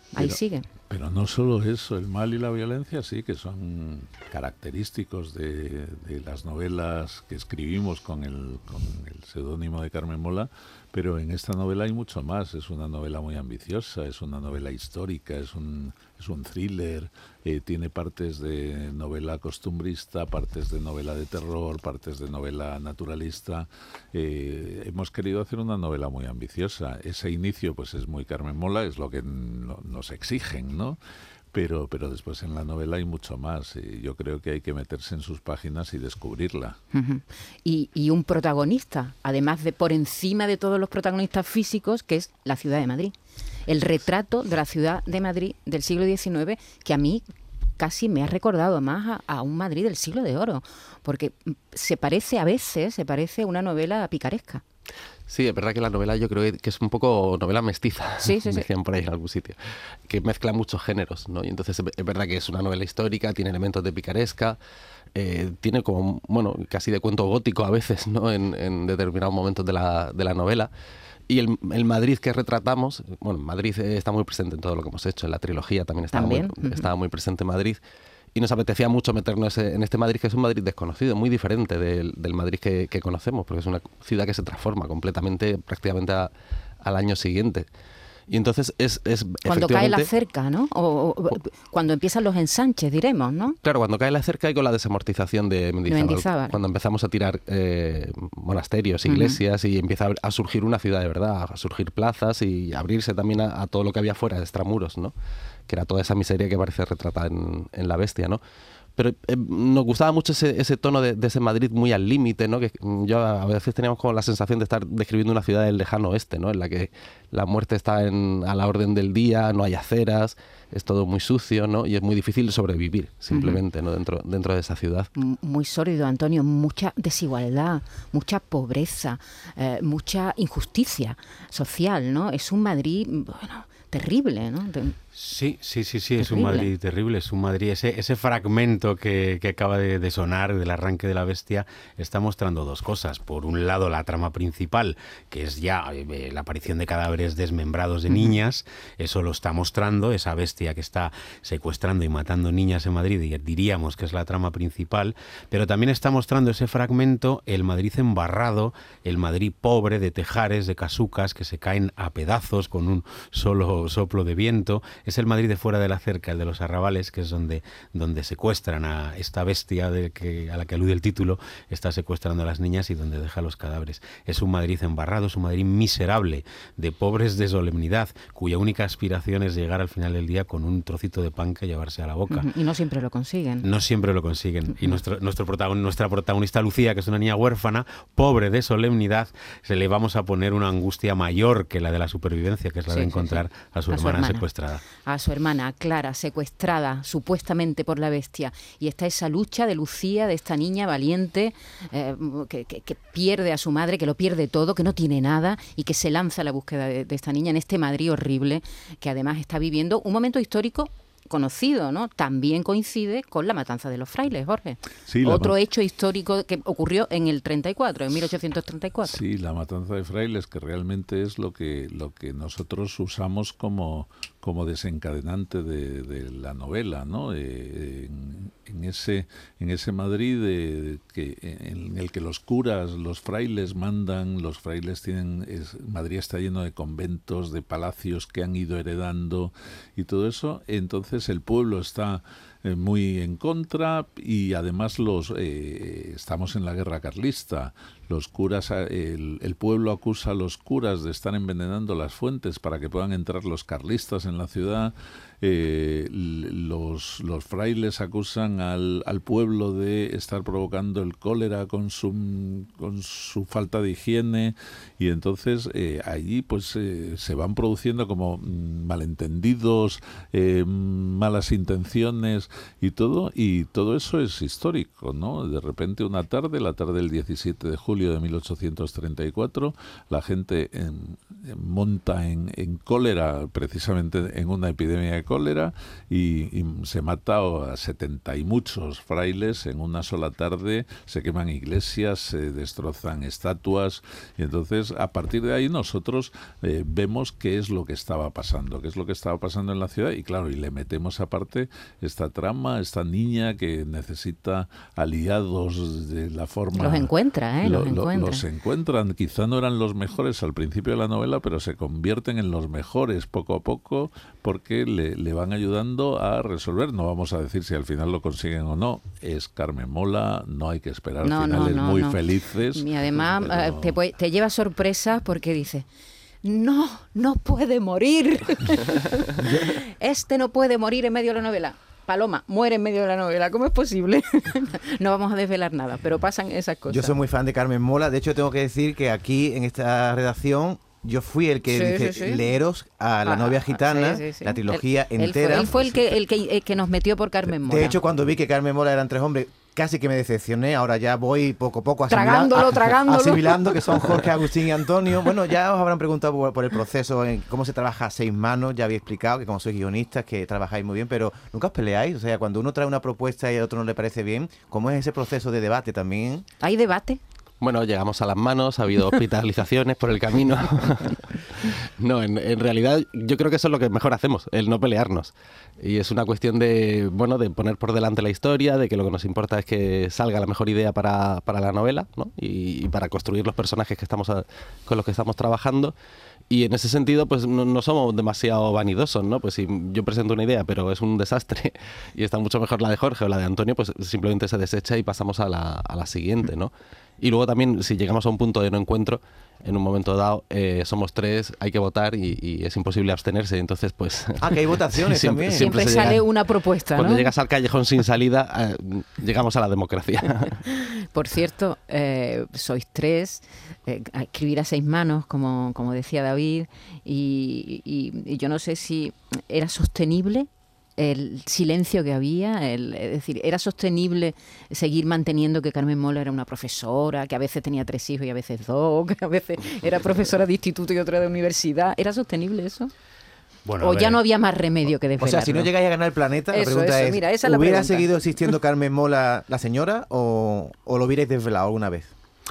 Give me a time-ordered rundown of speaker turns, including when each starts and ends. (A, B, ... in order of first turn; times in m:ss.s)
0:00.1-0:00.7 A
0:00.9-0:31.0 B
0:31.5-0:36.8 B
0:36.9-0:43.1 A
0:43.7-0:47.2 A
0:47.8-0:54.6 A
0:55.3-1:04.6 C
0:58.2-0:58.7 A
1:05.1-1:10.7 C
1:11.3-1:17.8 C
1:16.1-1:16.9 A
1:18.3-1:27.7 C
1:28.3-1:30.1 C
1:29.4-1:33.6 A
1:33.6-1:45.1 C
1:35.9-1:36.6 A
1:39.1-1:39.4 A
1:45.7-1:48.4 C
1:49.0-2:05.1 C
2:03.3-2:03.6 A
2:05.2-2:15.0 A
2:15.2-3:02.5 D
2:16.2-2:16.7 A
2:28.1-2:28.4 A
3:02.3-3:03.7 A
3:03.6-3:14.8 D
3:12.9-3:14.5 A
3:15.0-3:39.2 A
3:35.1-3:35.6 B
3:39.1-5:24.0 B
5:06.8-5:08.4 A
5:21.2-5:25.9 A
5:26.4-5:37.2 A
5:36.9-5:46.0 E
5:41.7-5:42.5 A
5:43.2-5:48.0 A
5:47.6-6:06.5 E
5:52.1-5:54.2 A
6:06.6-6:07.2 A
6:07.6-6:25.9 C
6:26.5-6:46.3 C
6:44.4-6:46.2 E
6:45.5-6:47.3 A
6:46.9-6:50.6 C
6:50.7-7:12.9 A
7:13.6-7:14.2 D
7:13.8-7:15.7 A
7:15.2-7:22.1 E
7:16.5-7:18.1 A